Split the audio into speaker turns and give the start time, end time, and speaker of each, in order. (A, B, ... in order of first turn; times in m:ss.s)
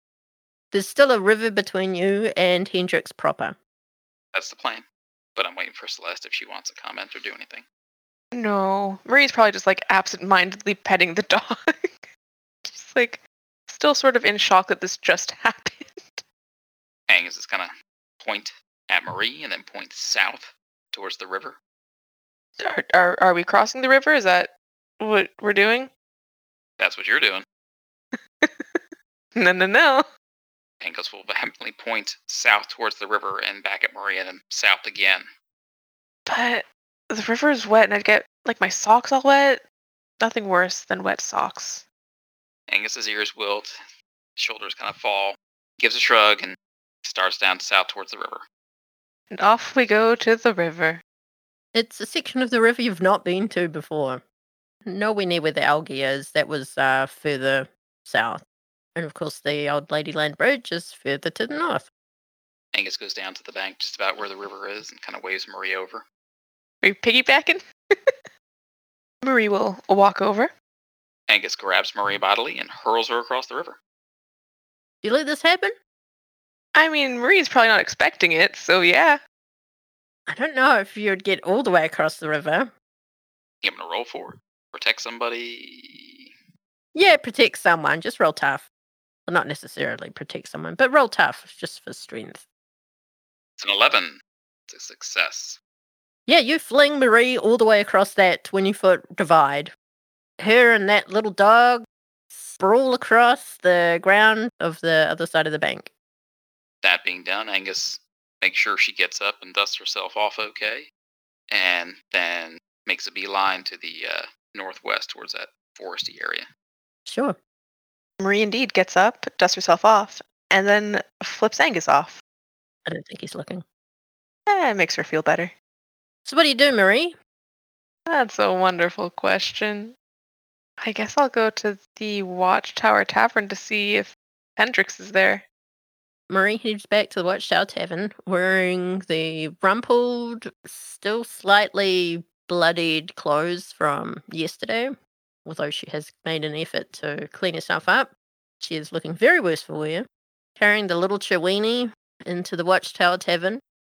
0:00.7-0:03.6 A
0:04.3-0:04.8 B
0:05.4-0:07.6 B
0:08.3-0:12.1 C
0:12.6-0:16.2 C
0:17.1-0:21.6 B
0:22.6-0:25.9 C
0:26.8-0:27.4 B
0:28.4-0:28.8 C
0:29.4-0:30.0 C
0:30.8-0:35.3 B
0:36.3-0:39.6 C
0:40.2-0:41.9 C
0:42.7-0:43.7 B
0:44.4-0:48.4 B
0:49.3-0:51.0 C
0:51.7-0:54.2 A
0:54.9-0:58.4 A
0:59.0-1:01.9 A
1:02.7-1:06.0 B
1:06.8-1:08.2 C
1:09.2-1:10.5 C
1:11.3-1:13.8 B
1:15.0-1:15.7 A
1:16.8-1:19.2 C
1:20.3-1:22.7 A
1:23.6-1:26.3 B
1:27.0-1:28.7 A
1:29.3-1:32.4 A
1:33.6-1:35.6 B
1:36.3-1:39.7 A
1:40.4-1:45.9 A
1:46.8-1:50.9 B
1:51.5-1:56.5 B
1:57.1-1:57.4 A
1:58.2-2:02.2 C
2:02.9-2:03.6 A
2:04.5-2:05.5 C
2:06.3-2:07.2 A
2:08.1-2:10.0 C
2:10.8-2:15.4 C
2:16.3-2:24.9 A
2:25.5-2:28.1 A
2:28.6-2:30.1 A
2:30.6-2:33.6 A